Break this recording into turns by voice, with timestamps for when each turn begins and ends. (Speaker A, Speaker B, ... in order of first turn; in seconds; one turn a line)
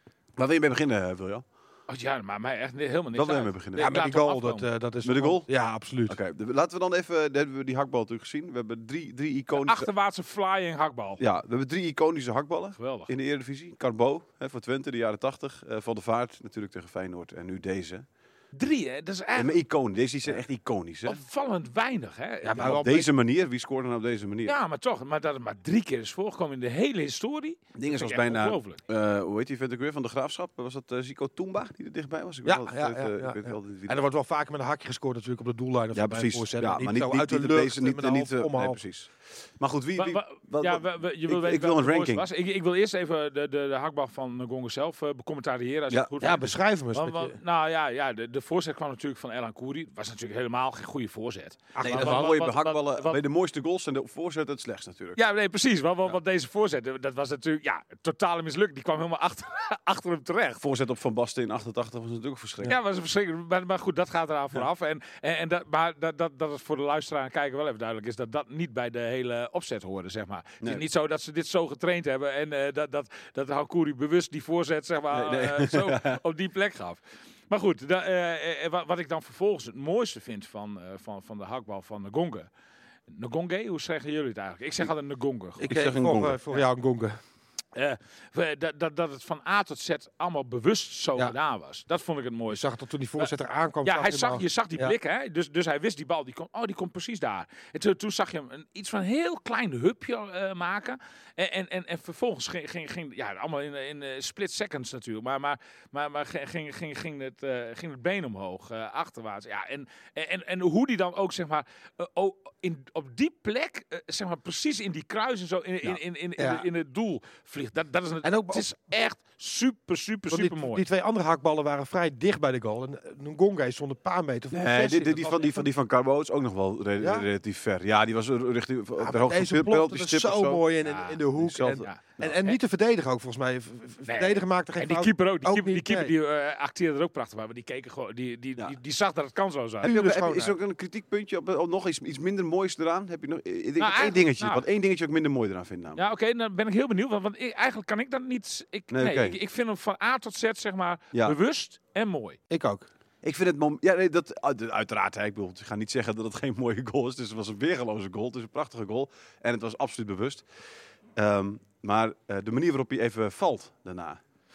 Speaker A: 0.4-1.4
Speaker B: 1.9-4.7
Speaker A: 3.1-3.9
Speaker C: 3.8-6.2
Speaker A: 5.0-5.5
Speaker A: 6.1-9.9
Speaker B: 9.5-11.2
Speaker A: 11.2-18.1
Speaker B: 12.8-13.1
Speaker B: 18.5-19.6
Speaker A: 19.4-21.2
Speaker B: 21.1-22.9
Speaker C: 22.5-23.1
Speaker A: 22.6-24.6
Speaker B: 24.4-28.8
Speaker A: 27.8-34.0
Speaker C: 32.5-38.8
Speaker A: 35.9-42.3
Speaker B: 40.0-53.2
Speaker C: 46.2-47.4
Speaker C: 51.8-52.4
Speaker A: 51.8-55.2
Speaker B: 55.2-60.6
Speaker A: 60.6-62.7
Speaker B: 62.6-82.5
Speaker A: 75.1-76.2
Speaker B: 83.1-85.7
Speaker A: 85.6-86.4
Speaker C: 85.6-87.2
Speaker B: 87.7-92.6
Speaker C: 92.5-95.0
Speaker B: 93.8-120.8
Speaker C: 116.4-116.7
Speaker C: 118.2-118.7
Speaker C: 120.3-125.6
Speaker A: 124.5-130.7
Speaker C: 127.0-127.3
Speaker C: 129.0-136.1
Speaker B: 130.9-131.2
Speaker A: 131.4-132.3
Speaker B: 131.8-132.6
Speaker B: 134.1-139.9
Speaker C: 139.8-140.6
Speaker A: 139.8-146.0
Speaker B: 143.8-144.6
Speaker B: 145.9-152.4
Speaker A: 148.9-149.4
Speaker C: 152.5-152.9
Speaker A: 153.2-160.4
Speaker A: 161.2-164.2